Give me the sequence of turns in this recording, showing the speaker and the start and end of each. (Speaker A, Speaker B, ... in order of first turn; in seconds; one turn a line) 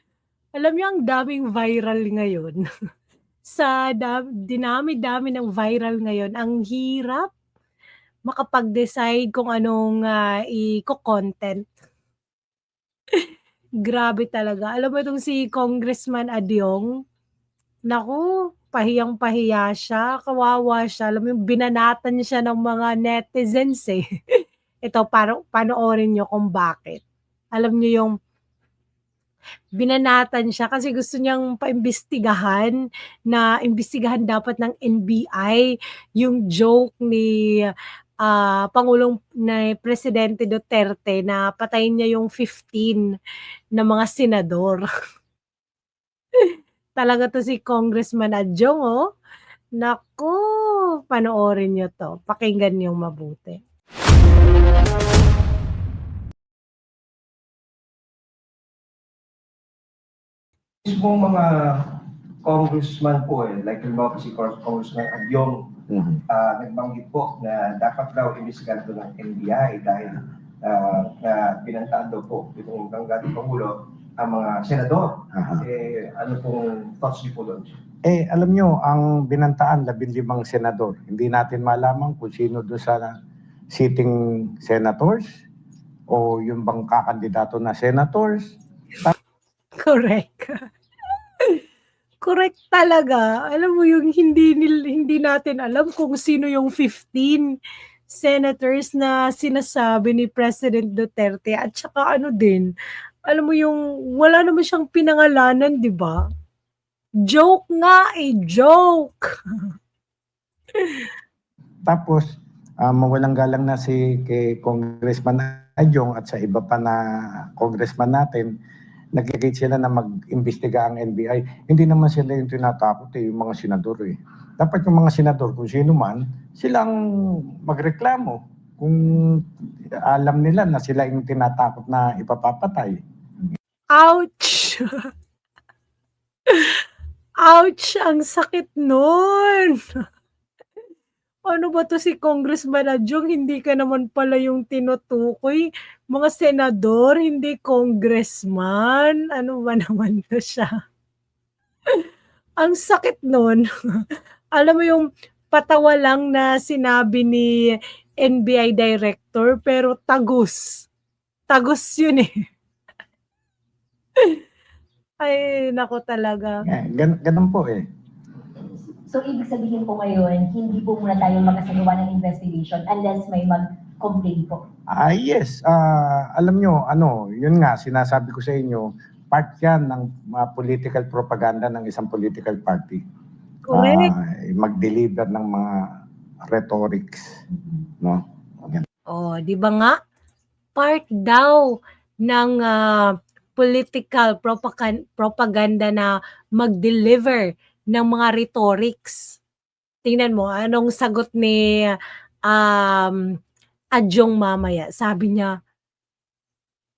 Speaker A: 0.6-2.6
Speaker A: 3.5-7.3
Speaker A: 8.3-11.6
Speaker A: 13.8-16.9
Speaker A: 17.9-24.0
Speaker A: 24.9-27.0
Speaker A: 27.5-28.1
Speaker A: 29.8-37.7
Speaker A: 38.2-43.0
Speaker A: 43.7-44.9
Speaker A: 46.4-49.0
Speaker A: 49.8-53.6
Speaker B: 60.8-65.8
Speaker C: 65.9-66.2
Speaker B: 66.3-77.8
Speaker C: 75.3-75.6
Speaker C: 78.0-83.1
Speaker C: 83.7-85.4
Speaker C: 86.1-89.1
Speaker A: 89.8-90.7
Speaker A: 92.2-97.5
Speaker A: 98.1-102.7
Speaker A: 103.3-106.2
Speaker A: 107.3-109.2
Speaker A: 110.8-111.1
Speaker C: 111.9-112.3
Speaker C: 112.8-118.5
Speaker C: 119.1-133.0
Speaker A: 133.9-134.9
Speaker A: 136.5-136.8
Speaker A: 137.4-139.8
Speaker A: 141.5-150.7
Speaker A: 152.6-153.7
Speaker A: 154.5-157.5
Speaker A: 158.2-160.9
Speaker A: 161.5-162.3
Speaker A: 165.2-166.6
Speaker C: 166.6-167.9
Speaker D: 169.1-174.6
Speaker C: 174.9-183.0
Speaker A: 183.7-184.1
Speaker C: 183.7-187.4
Speaker C: 188.0-188.8
Speaker A: 189.1-190.0
Speaker A: 190.8-191.7
Speaker A: 192.2-199.4
Speaker A: 200.0-201.9
Speaker A: 202.5-203.2
Speaker A: 203.9-205.5